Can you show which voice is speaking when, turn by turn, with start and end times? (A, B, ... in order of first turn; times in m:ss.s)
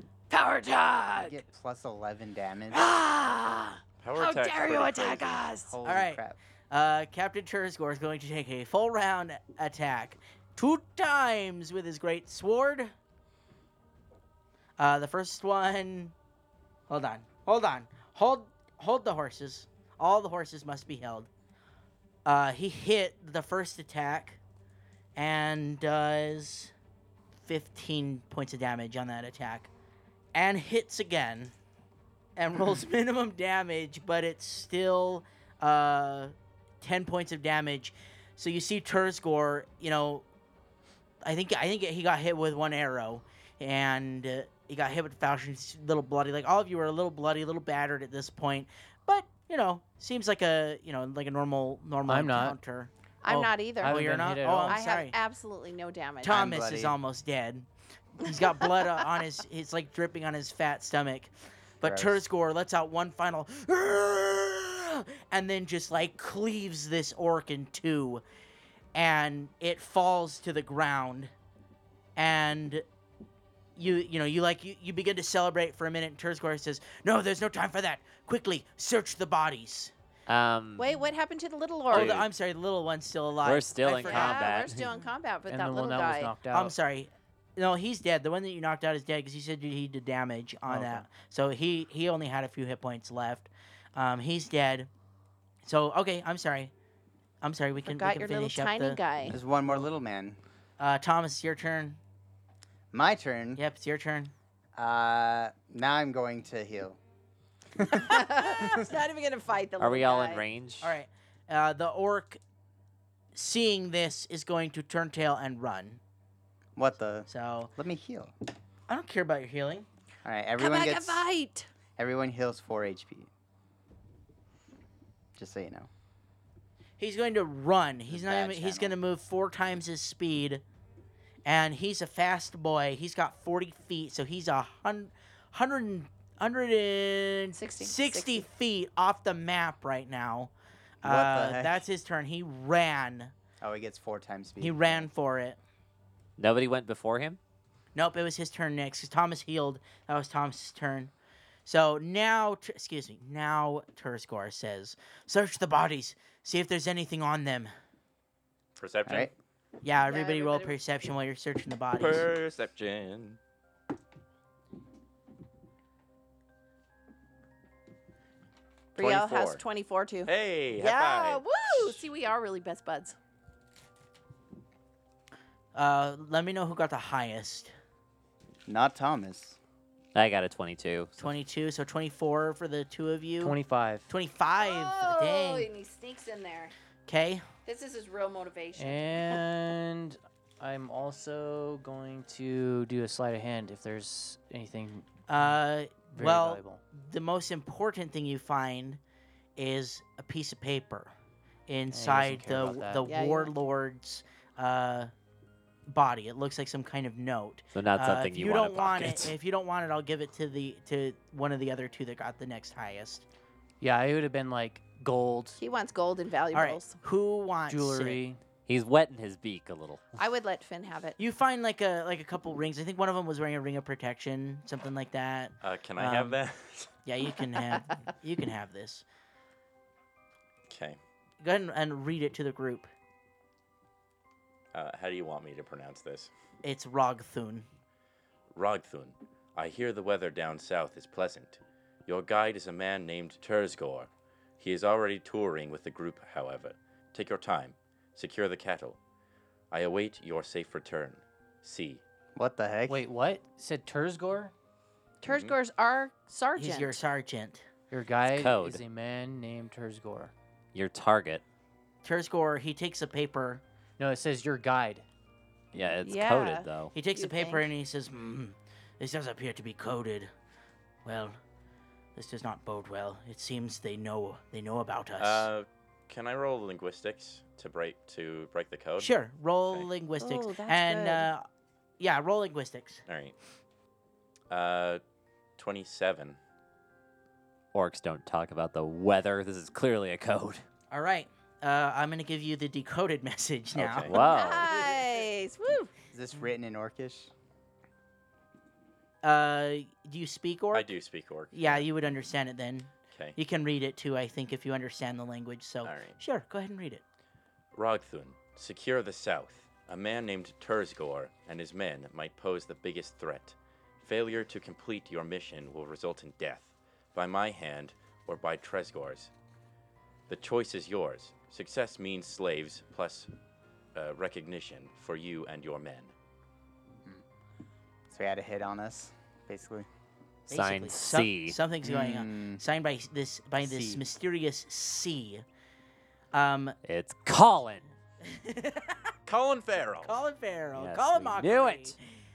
0:00.3-0:01.4 A
0:01.2-0:02.9 B
0:02.7-0:05.8 A
0:04.0-0:05.5 C
0:05.7-0:06.4 B
0:05.8-0:12.9 D
0:14.8-0:16.1 D
0:16.9-0:21.3 D
0:22.2-0:24.4 D
0:25.2-0:26.7 D
0:27.4-0:29.7 D
0:30.3-0:31.5 D
0:32.4-0:40.2 D
0:41.2-0:55.2 D
0:52.1-0:52.6 E
0:53.2-0:54.0 A
0:53.8-0:54.8 E
0:54.7-0:56.5 A
0:56.2-0:57.7 D
0:56.2-0:57.0 B
0:58.2-1:08.2 D
0:58.2-0:59.2 A
1:01.8-1:02.2 B
1:08.9-1:11.3 D
1:12.2-1:12.8 D
1:13.8-1:19.9 D
1:20.3-1:20.9 F
1:20.8-1:22.3 A
1:21.9-1:22.2 F
1:21.9-1:24.4 D
1:23.4-1:24.9 F
1:23.8-1:26.4 A
1:24.1-1:24.4 E
1:25.5-1:26.8 E
1:26.5-1:34.9 D
1:30.7-1:31.1 E
1:35.6-1:36.7 D
1:37.4-1:39.0 D
1:37.8-1:39.4 A
1:39.2-1:40.4 B
1:40.8-1:42.0 D
1:42.9-1:43.6 B
1:43.6-1:44.3 D
1:44.8-1:47.0 B
1:47.8-1:48.9 B
1:47.8-1:50.4 A
1:49.8-1:50.9 F
1:50.8-1:52.4 D
1:53.3-1:56.0 D
1:56.8-1:58.3 B
1:57.3-1:57.7 D
1:58.9-1:59.9 D
2:00.2-2:01.2 B
2:00.6-2:01.7 A
2:02.0-2:03.3 B
2:05.4-2:05.9 B
2:07.0-2:10.6 D
2:08.1-2:09.0 B
2:11.4-2:20.5 D
2:17.6-2:18.5 A
2:21.0-2:23.3 D
2:21.0-2:21.8 B
2:23.6-2:25.1 B
2:24.6-2:25.6 D
2:26.4-2:27.4 F
2:28.0-2:31.1 D
2:31.7-2:37.7 D
2:38.8-2:39.3 C
2:39.8-2:42.3 D
2:40.0-2:40.8 A
2:42.0-2:43.4 C
2:49.0-2:53.2 A
2:49.0-2:49.6 C
2:50.3-2:52.0 C
2:55.8-2:57.7 D
2:58.7-2:59.6 B
3:00.1-3:01.2 F
3:01.2-3:05.7 D
3:03.4-3:04.1 E
3:04.6-3:06.7 A
3:07.1-3:07.5 D
3:07.6-3:09.4 A
3:08.8-3:15.6 E
3:15.3-3:19.0 D
3:16.1-3:16.8 E
3:19.6-3:21.1 D
3:21.7-3:25.1 D
3:21.9-3:23.1 E
3:23.0-3:23.5 A
3:25.9-3:33.2 D
3:27.7-3:29.3 F
3:33.8-3:35.6 E
3:35.6-3:37.0 A
3:36.5-3:38.2 D
3:37.7-3:38.4 E
3:38.7-3:40.1 F
3:40.2-3:41.2 A
3:41.2-3:46.4 D
3:45.6-3:46.9 C
3:47.1-3:49.0 D
3:50.7-3:51.0 C
3:51.4-3:52.9 D
3:54.7-3:56.3 C
3:56.6-3:57.7 D
3:58.5-4:09.0 C
4:09.7-4:12.0 C
4:12.4-4:13.0 B
4:12.9-4:14.5 E
4:15.2-4:17.0 A
4:15.2-4:15.6 C
4:16.6-4:17.7 D
4:17.9-4:20.3 E
4:18.3-4:18.8 F
4:20.7-4:21.4 F
4:22.0-4:23.6 D
4:24.0-4:25.0 E
4:25.7-4:26.9 F
4:26.0-4:27.7 A
4:26.9-4:30.3 D
4:31.0-4:31.4 D
4:32.2-4:35.5 D
4:35.2-4:39.2 C
4:39.0-4:41.5 D
4:40.2-4:41.2 F
4:40.5-4:40.9 A
4:42.0-4:43.0 D
4:43.1-4:43.4 C
4:44.5-4:45.0 C
4:45.6-4:46.4 C
4:47.7-4:50.6 F
4:50.9-4:54.2 D
4:53.8-4:54.2 C
4:54.1-4:54.9 F
4:54.1-4:55.9 A
4:56.1-4:57.3 B
4:59.2-5:00.9 D
5:00.7-5:01.9 C
5:01.5-5:07.0 D
5:03.1-5:03.4 C
5:05.8-5:06.2 C
5:07.7-5:19.3 C
5:20.3-5:23.3 C
5:24.0-5:26.1 C
5:28.1-5:29.9 B
5:30.5-5:31.6 F
5:30.5-5:35.4 D
5:31.8-5:32.6 B
5:33.6-5:34.0 B
5:36.3-5:36.8 D
5:36.8-5:37.8 F
5:38.2-5:39.1 D
5:39.3-5:40.2 C
5:40.1-5:42.0 D
5:40.8-5:42.0 F